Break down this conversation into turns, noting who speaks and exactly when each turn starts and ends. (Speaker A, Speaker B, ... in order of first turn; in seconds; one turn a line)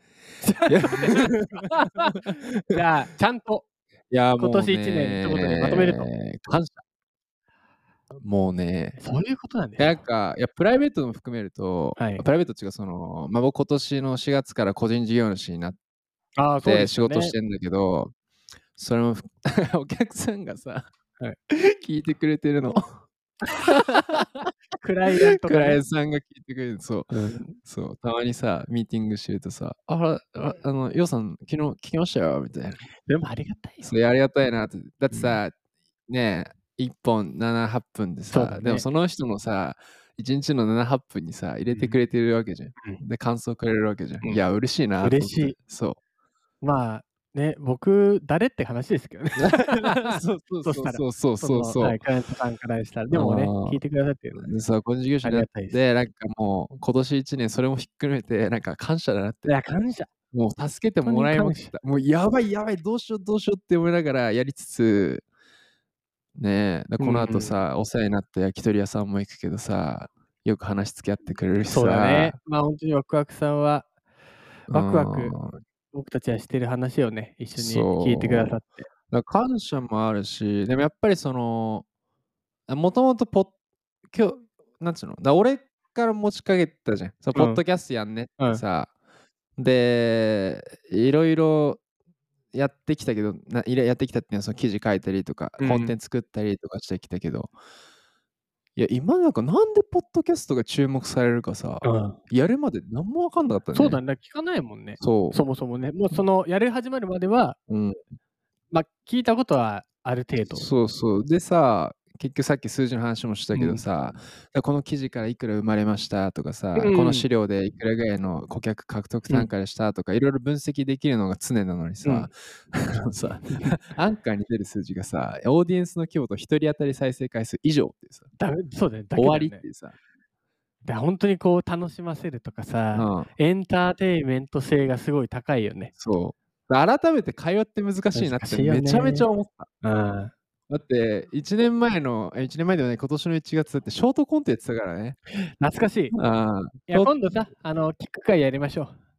Speaker A: 0.4-2.2
Speaker B: 0.7-2.8
Speaker A: 2.7-3.7
Speaker B: 4.1-6.8
Speaker A: 4.4-6.1
Speaker B: 8.2-9.0
Speaker A: 9.0-10.0
Speaker B: 9.8-15.8
Speaker A: 12.0-12.2
Speaker A: 16.4-17.4
Speaker B: 16.6-18.1
Speaker B: 18.8-20.9
Speaker B: 21.5-22.9
Speaker B: 23.6-24.2
Speaker A: 23.8-24.2
Speaker A: 24.8-25.8
Speaker B: 25.1-32.8
Speaker A: 27.1-27.6
Speaker A: 33.0-33.9
Speaker B: 33.8-35.5
Speaker A: 35.1-35.4
Speaker B: 36.1-46.0
Speaker A: 38.3-38.9
Speaker A: 41.7-42.0
Speaker A: 45.0-45.6
Speaker A: 46.6-54.5
Speaker B: 49.4-52.0
Speaker B: 53.1-53.8
Speaker B: 54.4-59.5
Speaker A: 55.2-55.8
Speaker A: 59.5-60.1
Speaker B: 60.3-65.2
Speaker A: 61.0-61.7
Speaker B: 66.4-72.4
Speaker A: 67.0-67.6
Speaker A: 71.7-73.9
Speaker B: 74.7-75.6
Speaker A: 74.7-75.4
Speaker A: 75.9-78.9
Speaker B: 77.6-78.6
Speaker B: 79.1-81.9
Speaker B: 82.7-83.5
Speaker B: 84.1-88.9
Speaker A: 87.3-87.6
Speaker B: 89.6-91.8
Speaker B: 92.5-97.5
Speaker A: 95.6-95.9
Speaker B: 98.8-104.0
Speaker A: 101.8-102.2
Speaker A: 103.7-107.6
Speaker B: 105.0-105.4
Speaker B: 107.7-108.0
Speaker A: 108.7-110.7
Speaker B: 110.5-128.3
Speaker A: 113.5-113.8
Speaker A: 116.8-117.3
Speaker A: 122.0-122.3
Speaker A: 123.2-123.7
Speaker A: 128.4-129.6
Speaker B: 129.2-129.9
Speaker A: 130.8-135.9
Speaker B: 132.9-133.3
Speaker B: 136.0-139.7
Speaker A: 138.1-139.3
Speaker A: 139.8-140.3
Speaker B: 140.7-145.2
Speaker A: 145.3-146.2
Speaker B: 146.1-147.1
Speaker A: 146.9-148.9